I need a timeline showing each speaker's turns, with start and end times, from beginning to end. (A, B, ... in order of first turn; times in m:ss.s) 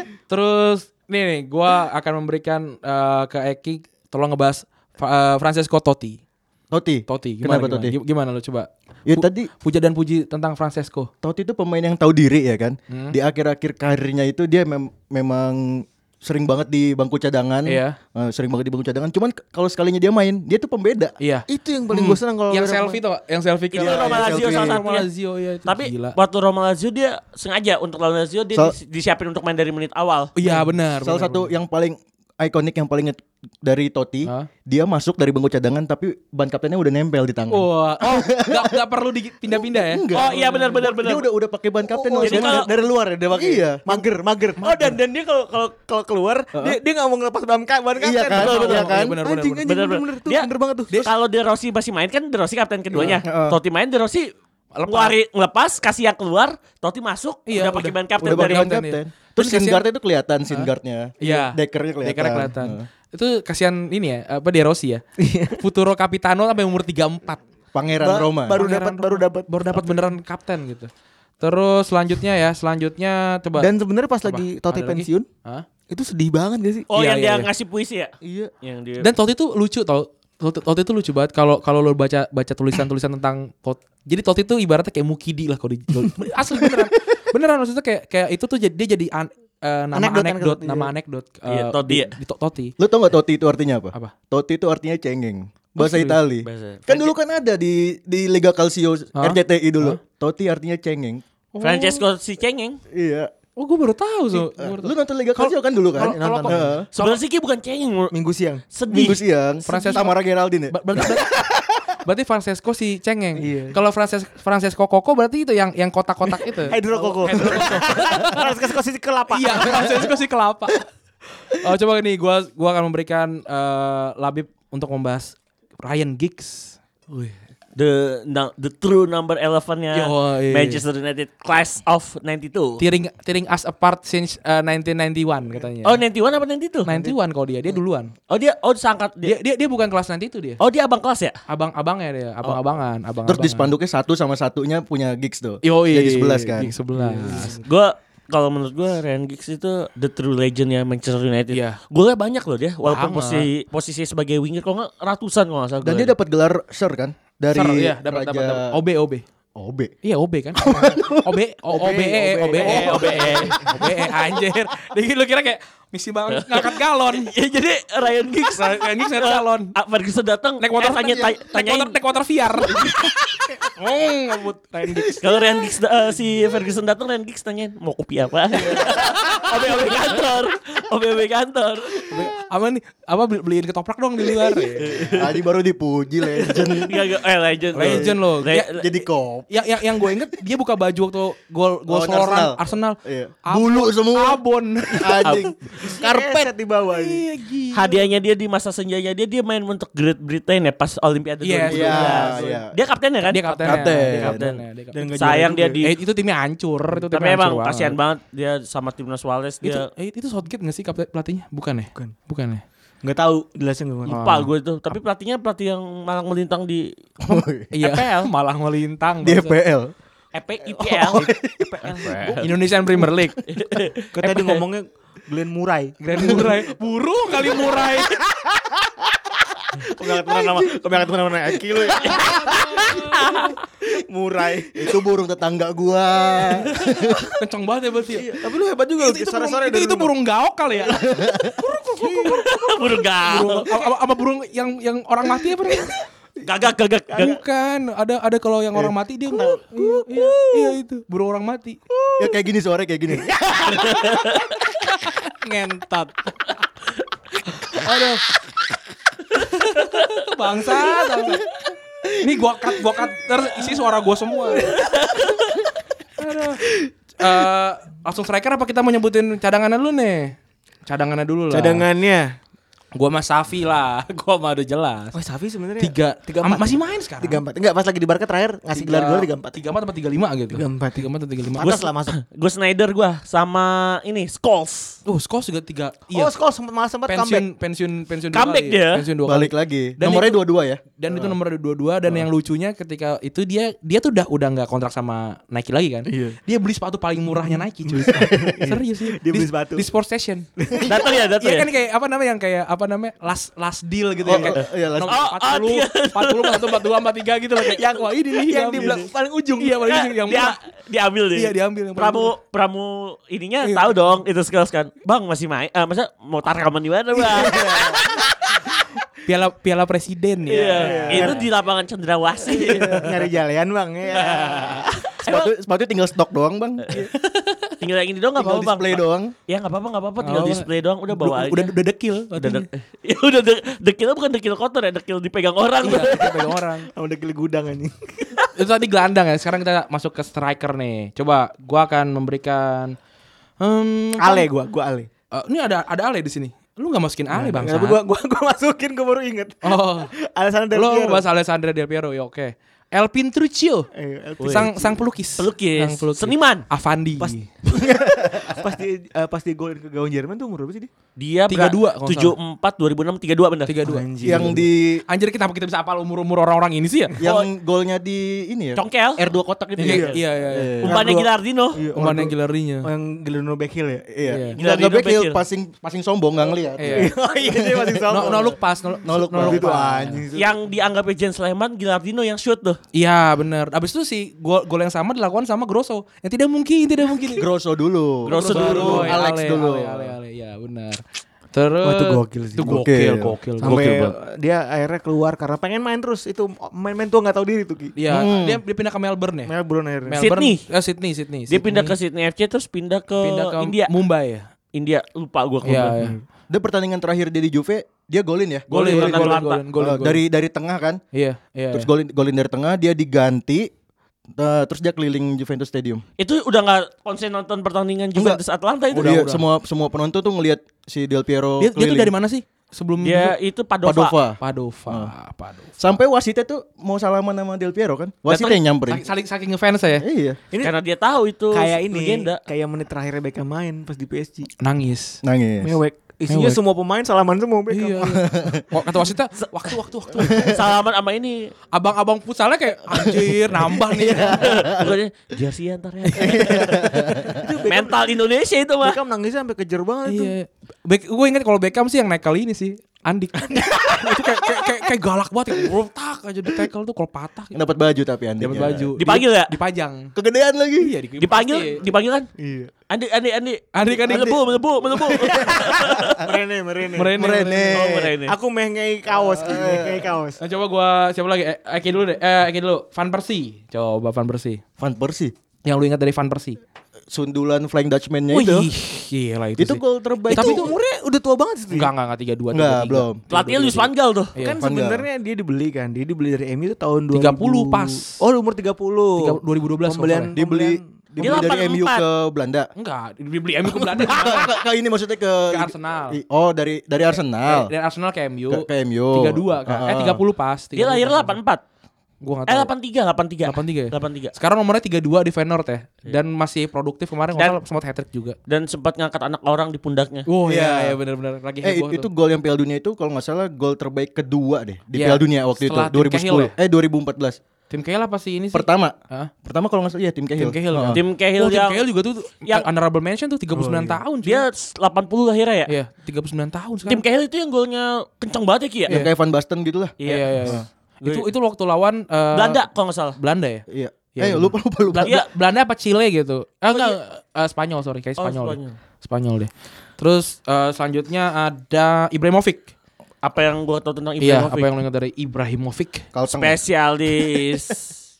0:00.3-0:06.2 A
0:06.7-0:07.9 B
0:07.1-0:11.1 A
0:09.0-0:09.5 B
0:11.2-0:21.1 B
0:12.9-0:13.2 A
0:17.6-0:18.0 A
0:21.2-0:21.4 A
0:21.5-0:23.0 C
0:21.9-0:22.2 B
0:22.5-0:26.2 A
0:23.7-0:25.1 D
0:23.8-0:24.8 B
0:25.6-0:30.3 D
0:30.4-0:31.5 A
0:30.5-0:38.8 B
0:37.5-0:40.9 A
0:39.5-0:44.0 B
0:40.1-0:41.3 D
0:41.9-0:51.1 C
0:42.2-0:42.7 D
0:44.7-0:45.1 D
0:48.0-0:49.2 B
0:48.4-0:48.8 D
0:48.5-0:49.7 A
0:49.7-0:54.3 D
0:53.0-0:53.6 B
0:54.8-0:55.1 A
0:54.9-0:58.7 D
0:57.5-0:59.8 A
0:58.2-1:02.8 B
1:01.2-1:05.0 A
1:05.2-1:05.6 C
1:05.6-1:07.4 A
1:07.7-1:08.6 B
1:08.0-1:10.0 C
1:08.5-1:10.9 A
1:11.4-1:13.7 A
1:13.6-1:15.3 C
1:14.2-1:15.6 A
1:15.9-1:16.8 C
1:16.9-1:19.1 D
1:16.9-1:17.5 A
1:18.2-1:18.5 C
1:19.0-1:32.7 A
1:29.9-1:30.9 C
1:31.5-1:32.1 D
1:32.8-1:41.2 B
1:35.8-1:36.2 A
1:36.4-1:37.1 D
1:39.2-1:40.0 A
1:41.5-1:42.0 A
1:41.6-1:42.8 D
1:42.9-1:43.3 B
1:43.6-1:47.2 A
1:44.3-1:46.9 B
1:46.0-1:46.8 C
1:47.0-1:48.1 D
1:48.1-1:48.6 C
1:48.7-1:49.2 D
1:48.9-1:50.7 B
1:49.7-1:50.1 A
1:50.7-1:51.4 A
1:52.0-1:58.4 A
1:53.4-1:53.8 C
1:56.7-2:00.1 C
1:59.3-2:00.8 A
2:01.6-2:06.8 A
2:07.7-2:12.8 D
2:09.9-2:10.8 A
2:12.8-2:16.0 A
2:15.8-2:16.9 D
2:16.8-2:18.1 A
2:16.9-2:17.2 C
2:18.3-2:19.3 D
2:19.2-2:20.6 A
2:20.6-2:21.4 D
2:21.5-2:23.7 A
2:23.2-2:26.7 B
2:25.6-2:27.6 A
2:27.0-2:27.6 C
2:27.6-2:36.1 D
2:31.5-2:31.8 A
2:32.8-2:33.5 A
2:35.8-2:38.8 B
2:37.5-2:39.2 A
2:39.6-2:39.9 B
2:40.0-2:40.7 A
2:40.6-2:43.6 B
2:41.2-2:47.3 A
2:41.7-2:43.9 C
2:42.6-2:43.6 D
2:46.3-2:52.0 D
2:48.5-2:49.7 A
2:50.6-2:52.9 A
2:53.6-2:55.2 A
2:54.8-2:55.2 C
2:55.2-3:02.1 D
3:02.1-3:05.1 A
3:04.8-3:05.4 D
3:05.1-3:07.0 B
3:06.8-3:08.8 D
3:07.7-3:09.5 B
3:07.7-3:08.7 A
3:09.5-3:15.3 A
3:11.9-3:14.4 B
3:14.9-3:16.5 B
3:15.8-3:17.2 C
3:16.9-3:18.0 A
3:17.7-3:24.6 D
3:21.4-3:22.3 A
3:21.7-3:22.7 B
3:23.3-3:25.2 A
3:23.6-3:24.4 B
3:24.9-3:25.8 C
3:25.1-3:26.0 D
3:25.8-3:28.0 A
3:27.1-3:29.9 D
3:29.6-3:32.6 A
3:33.0-3:34.2 C
3:34.0-3:36.9 D
3:34.1-3:34.5 A
3:37.2-3:37.7 B
3:37.7-3:39.6 A
3:37.8-3:38.3 D
3:39.2-3:39.9 B
3:40.3-3:41.2 D
3:40.9-3:42.5 C
3:40.9-3:42.1 B
3:42.4-3:43.4 A
3:43.5-3:44.5 D
3:44.2-3:46.5 C
3:46.0-3:48.1 A
3:49.8-3:53.1 C
3:52.2-3:53.5 A
3:53.2-3:53.5 D
3:53.8-3:55.0 C
3:54.8-3:57.3 B
3:57.4-3:58.3 A
3:58.2-4:00.1 C
3:59.0-4:01.0 A
4:00.9-4:01.6 B
4:01.7-4:03.9 C
4:02.0-4:02.3 A
4:02.2-4:03.6 D
4:03.2-4:05.9 A
4:05.2-4:05.9 C
4:06.4-4:07.4 D
4:07.1-4:07.4 C
4:07.2-4:11.8 A
4:08.8-4:10.7 C
4:11.9-4:12.4 C
4:12.2-4:13.4 B
4:13.7-4:14.4 D
4:14.8-4:16.5 A
4:17.6-4:18.2 A
4:19.4-4:21.4 A
4:22.2-4:24.7 A
4:24.6-4:24.9 C
4:26.2-4:26.6 A
4:27.2-4:30.3 A
4:30.9-4:31.8 A
4:31.5-4:32.4 C
4:32.9-4:35.2 A
4:35.1-4:39.6 C
4:35.8-4:37.4 A
4:38.7-4:41.8 A
4:40.5-4:42.2 C
4:42.2-4:45.0 D
4:45.0-4:46.3 A
4:46.1-4:47.4 C
4:47.1-5:00.5 A
4:48.3-4:49.0 D
4:49.2-4:50.8 B
4:56.1-4:56.4 C
4:57.5-4:59.8 C
5:00.6-5:00.9 C
5:00.9-5:01.7 D
5:01.4-5:10.6 A
5:04.2-5:05.2 B
5:05.1-5:06.8 D
5:07.7-5:09.8 C
5:09.9-5:18.2 D
5:11.3-5:12.3 A
5:13.6-5:13.9 A
5:17.4-5:18.0 C
5:19.2-5:21.3 A
5:20.5-5:23.1 D
5:20.5-5:21.4 C
5:22.5-5:25.0 C
5:24.1-5:25.5 D
5:25.2-5:26.9 B
5:26.9-5:27.7 A
5:27.8-5:31.7 D
5:28.4-5:29.3 B
5:30.2-5:32.7 A
5:32.4-5:36.3 D
5:35.8-5:36.9 A
5:36.0-5:38.4 C
5:38.5-5:42.9 A
5:43.6-5:44.5 A
5:44.2-5:45.1 C
5:45.3-5:48.0 A
5:47.3-5:51.2 C
5:49.6-5:50.1 A
5:50.7-5:53.9 A
5:53.9-5:55.0 C
5:54.4-5:54.7 D
5:54.5-5:57.4 A
5:55.4-5:56.6 D
5:57.2-6:00.9 C
6:01.2-6:03.8 D
6:01.5-6:02.3 A
6:03.7-6:04.5 A
6:03.8-6:04.7 C
6:04.2-6:05.0 B
6:05.1-6:07.1 A
6:07.2-6:11.0 B
6:07.2-6:07.5 D
6:08.8-6:09.2 D
6:09.8-6:10.8 A
6:09.8-6:10.1 C
6:10.8-6:11.8 D
6:10.8-6:12.3 C
6:11.9-6:12.9 A
6:12.8-6:14.1 C
6:14.1-6:18.3 B
6:14.2-6:14.6 A
6:14.6-6:15.4 D
6:16.8-6:17.1 A
6:16.9-6:18.6 C
6:18.1-6:20.2 A
6:19.0-6:20.1 B
6:19.4-6:20.5 C
6:20.3-6:22.8 D
6:22.9-6:27.5 A
6:27.4-6:30.2 B
6:28.2-6:29.2 D
6:28.3-6:31.0 A
6:31.5-6:34.0 A
6:31.8-6:32.8 C
6:32.6-6:34.0 B
6:33.6-6:37.9 C
6:38.0-6:39.5 A
6:38.1-6:38.6 B
6:39.4-6:40.2 C
6:40.0-6:41.9 A
6:40.2-6:40.6 D
6:41.5-6:43.9 D
6:43.2-6:44.5 A
6:44.7-6:46.0 D
6:45.6-6:46.2 A
6:46.5-6:51.0 B
6:48.7-6:49.6 D
6:48.7-6:50.2 A
6:51.1-6:51.9 A
6:51.7-6:53.7 B
6:54.4-6:56.0 B
6:56.2-6:59.2 D
6:58.1-6:58.4 B
6:58.9-7:02.1 B
6:58.9-6:59.4 A
7:01.6-7:03.3 A
7:03.0-7:04.2 D
7:03.8-7:05.1 B
7:04.4-7:05.8 A
7:05.8-7:09.1 B
7:08.3-7:10.0 A
7:10.0-7:10.4 B
7:10.6-7:12.4 D
7:11.5-7:14.5 C
7:14.6-7:15.2 A
7:15.2-7:15.8 B
7:15.6-7:18.3 C
7:16.3-7:16.6 A
7:17.7-7:20.5 A
7:18.3-7:18.6 B
7:20.4-7:21.5 D
7:21.7-7:24.5 A
7:23.8-7:24.9 B
7:24.4-7:27.0 D
7:26.2-7:27.4 B
7:27.3-7:28.0 C
7:27.7-7:29.0 D
7:28.8-7:30.3 C
7:30.1-7:37.6 A
7:37.5-7:39.2 B
7:38.4-7:40.1 A
7:39.0-7:39.5 D
7:40.2-7:40.9 B
7:40.8-7:41.8 A
7:41.2-7:42.3 D
7:42.4-7:42.7 C
7:42.9-7:46.2 D
7:43.7-7:44.4 A
7:45.3-7:47.6 C
7:46.9-7:47.7 A
7:47.1-7:48.1 B
7:47.7-7:48.3 D
7:48.2-7:50.4 C
7:49.3-7:50.1 B
7:50.4-7:54.6 A
7:54.8-7:55.3 B
7:55.6-7:56.6 A
7:57.1-7:58.7 B
7:58.3-8:00.7 A
7:59.6-8:00.7 B
8:00.3-8:01.9 C
8:01.7-8:03.8 A
8:02.5-8:03.3 B
8:03.3-8:04.3 D
8:04.3-8:04.6 A
8:04.4-8:10.9 C
8:04.6-8:05.1 B
8:07.1-8:08.0 A
8:09.2-8:10.3 A
8:10.3-8:12.7 B
8:11.2-8:12.0 D
8:12.8-8:14.5 A
8:13.6-8:17.7 B
8:15.5-8:16.2 A
8:17.4-8:21.4 A
8:18.5-8:20.2 B
8:20.7-8:21.6 D
8:22.2-8:22.7 A
8:22.5-8:24.3 D
8:23.4-8:28.4 A
8:28.5-8:30.3 D
8:30.3-8:32.1 A
8:30.4-8:31.0 B
8:31.6-8:37.4 B
8:34.9-8:36.5 A
8:37.7-8:39.3 A
8:38.5-8:41.0 B
8:40.4-8:44.4 A
8:40.9-8:41.8 D
8:43.5-8:44.0 C
8:44.2-8:45.7 D
8:45.7-8:47.0 A
8:46.9-8:48.9 D
8:48.9-8:50.6 B
8:50.0-8:51.3 D
8:50.0-8:52.6 A
8:52.3-8:53.2 D
8:53.2-9:02.7 A
8:53.7-8:55.2 B
8:56.7-8:57.0 D
8:58.2-8:58.8 D
9:03.2-9:04.7 D
9:04.2-9:06.0 A
9:06.1-9:06.6 B
9:06.3-9:07.9 D